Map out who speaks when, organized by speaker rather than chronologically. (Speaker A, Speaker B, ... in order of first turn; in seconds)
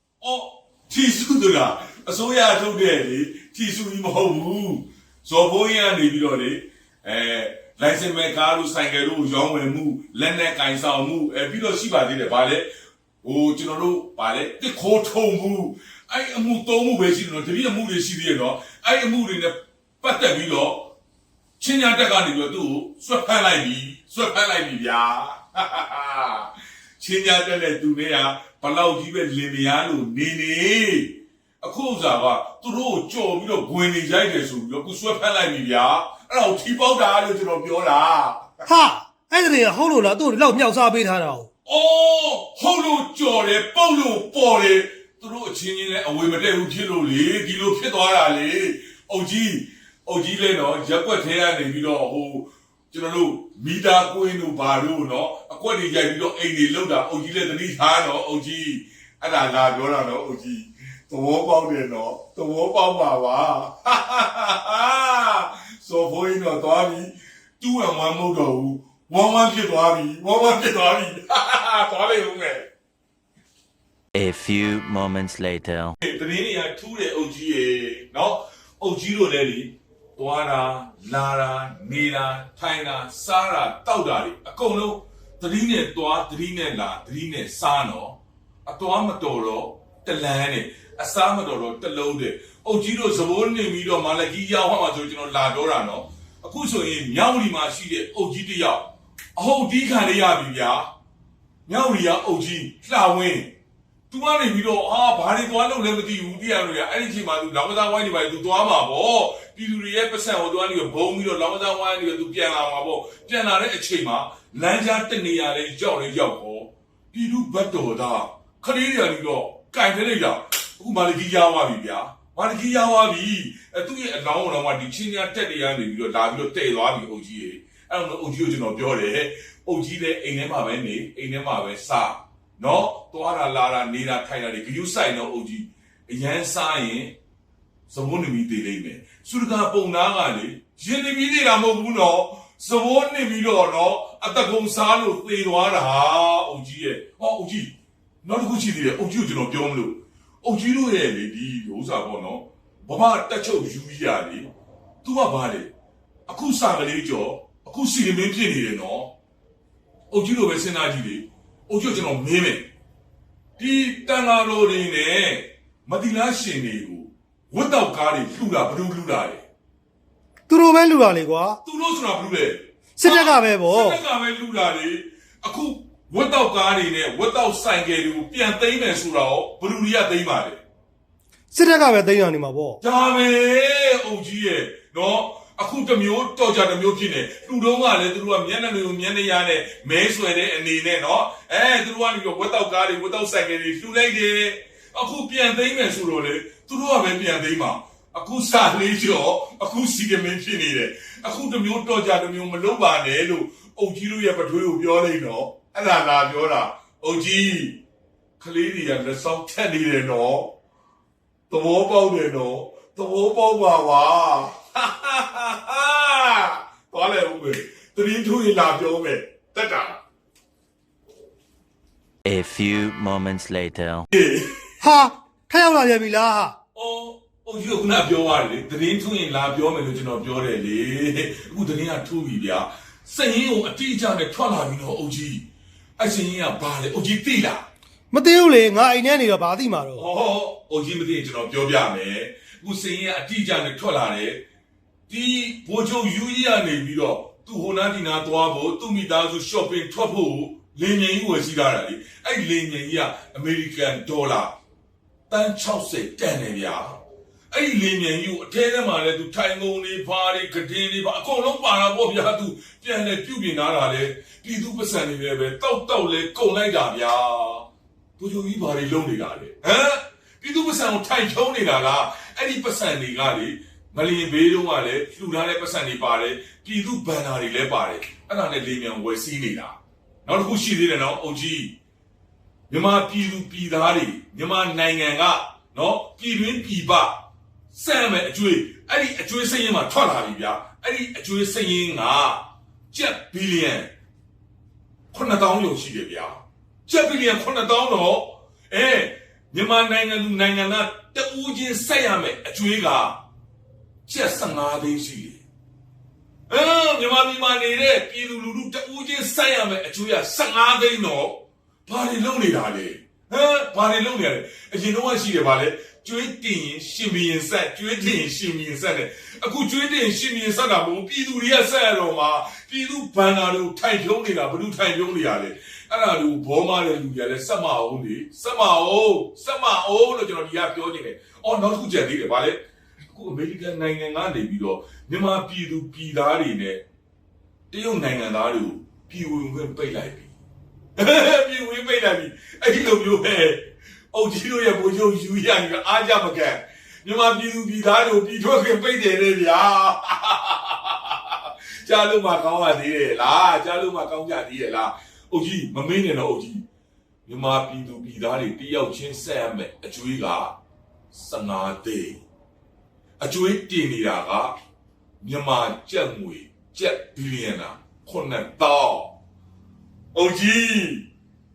Speaker A: 0.2-12.7, 13.2-20.9, 21.6-38.5, 41.6-72.7, 76.0-100.9, 101.7-103.5, 104.1-137.2, 137.9-154.5, 155.0-155.7, 156.3-159.1, 160.1-162.7, 163.6-169.4, 171.6-180.6, 182.8-207.8, 208.4-210.5, 211.5-220.0, 224.1-224.7, 226.7-235.5, 236.0-237.7, 239.9-244.4, 245.1-254.5, 255.3-257.0, 257.5-267.6, 268.2-281.8, 282.7-293.9, 295.1-303.2, 304.1-305.4, 306.5-336.8, 337.7-340.4, 341.0-356.6, 357.2-360.6, 361.1-362.2, 363.2-364.6, 365.2-369.2, 370.1-371.1
Speaker B: 38.7-41.5, 170.5-171.6, 173.0-174.0, 181.5-182.8, 224.8-226.6, 238.1-240.0
Speaker C: 74.1-76.0, 222.2-224.1